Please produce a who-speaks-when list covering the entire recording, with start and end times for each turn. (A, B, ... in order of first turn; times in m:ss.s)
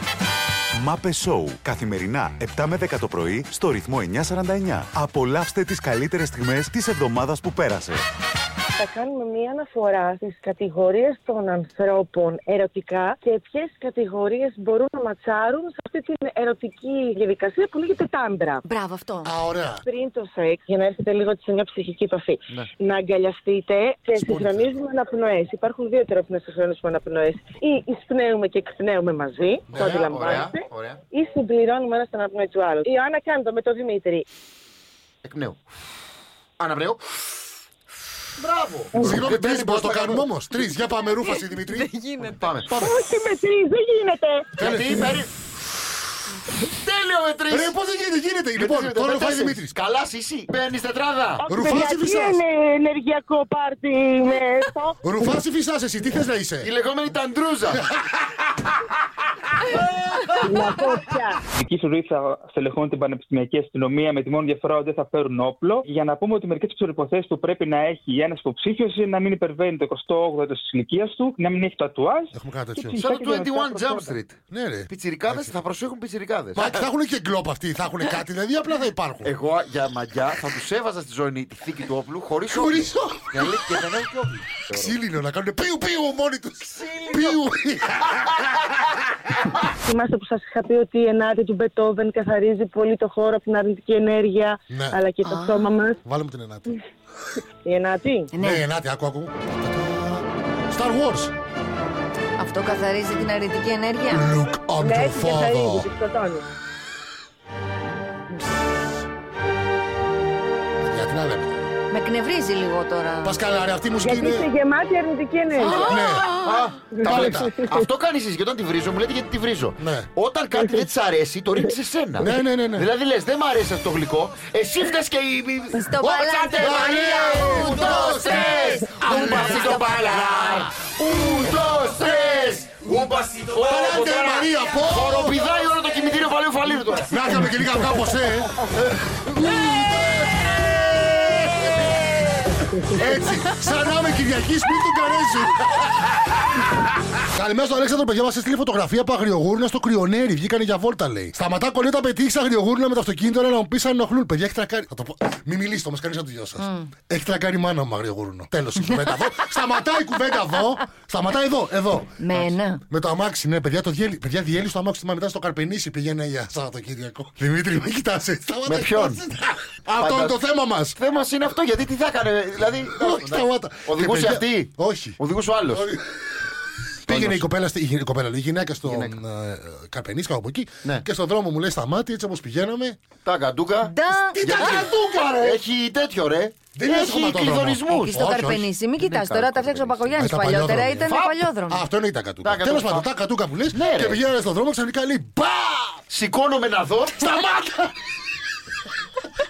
0:00.8-0:08.0 A
0:08.8-0:18.6 B
0:18.6-0:19.3 C
0:19.2-0:19.8 D
0:19.8-0:34.2 B
0:24.2-0:24.6 E
0:29.7-0:30.0 D
0:29.7-0:31.0 E
0:35.2-0:35.6 E
0:36.6-0:37.0 E
0:38.4-0:40.3 E
0:38.9-0:41.9 D
0:39.0-0:39.3 B
0:41.7-0:42.4 C
0:42.2-0:42.7 E
0:42.7-0:44.6 B
0:42.7-0:43.0 D
0:44.6-0:45.2 D
0:44.6-0:45.3 E
0:46.6-0:47.7 E
0:47.5-0:49.8 D
0:48.6-0:51.4 E
0:51.4-0:55.0 B
0:51.5-0:52.4 D
0:55.0-0:56.7 D
0:56.6-0:57.8 E
0:57.7-0:58.1 D
1:00.4-1:01.4 B
1:01.6-1:14.1 F
1:12.3-1:13.0 D
1:13.0-1:16.8 E
1:14.5-1:15.5 D
1:16.5-1:19.3 D
1:19.2-1:25.0 E
1:22.5-1:23.8 D
1:24.7-1:28.4 D
1:26.7-1:27.4 E
1:29.8-1:36.0 B
1:34.7-1:35.0 D
1:35.2-1:35.6 C
1:36.0-1:36.8 D
1:37.6-1:38.3 B
1:38.3-1:38.6 C
1:38.4-1:41.3 D
1:42.4-1:44.2 C
1:44.1-1:45.9 D
1:44.8-1:46.4 B
1:50.8-1:51.6 D
1:51.9-1:53.4 C
1:53.2-1:54.5 D
1:54.0-1:56.0 B
1:55.6-1:56.6 C
1:55.7-2:17.5 E
1:55.8-1:57.5 D
1:56.9-1:57.8 B
1:59.8-2:00.1 D
2:00.5-2:00.9 B
2:02.2-2:02.9 D
2:05.7-2:10.6 C
2:06.5-2:09.8 D
2:13.5-2:15.4 D
2:17.0-2:21.9 D
2:22.7-2:25.8 D
2:27.3-2:51.0 D
2:36.6-2:36.9 C
2:42.2-2:42.8 C
2:48.6-2:49.2 E
2:50.0-2:55.9 E
2:52.9-2:56.0 D
2:57.0-3:03.0 D
2:57.1-2:57.5 E
2:58.8-2:59.2 E
3:03.2-3:08.2 E
3:03.8-3:04.8 C
3:04.2-3:05.6 D
3:06.8-3:08.7 D
3:07.9-3:11.8 C
3:09.0-3:10.3 E
3:10.2-3:11.2 D
3:11.1-3:11.4 E
3:11.7-3:16.0 D
3:12.4-3:13.1 E
3:13.7-3:14.2 E
3:16.1-3:17.2 E
3:17.1-3:17.9 D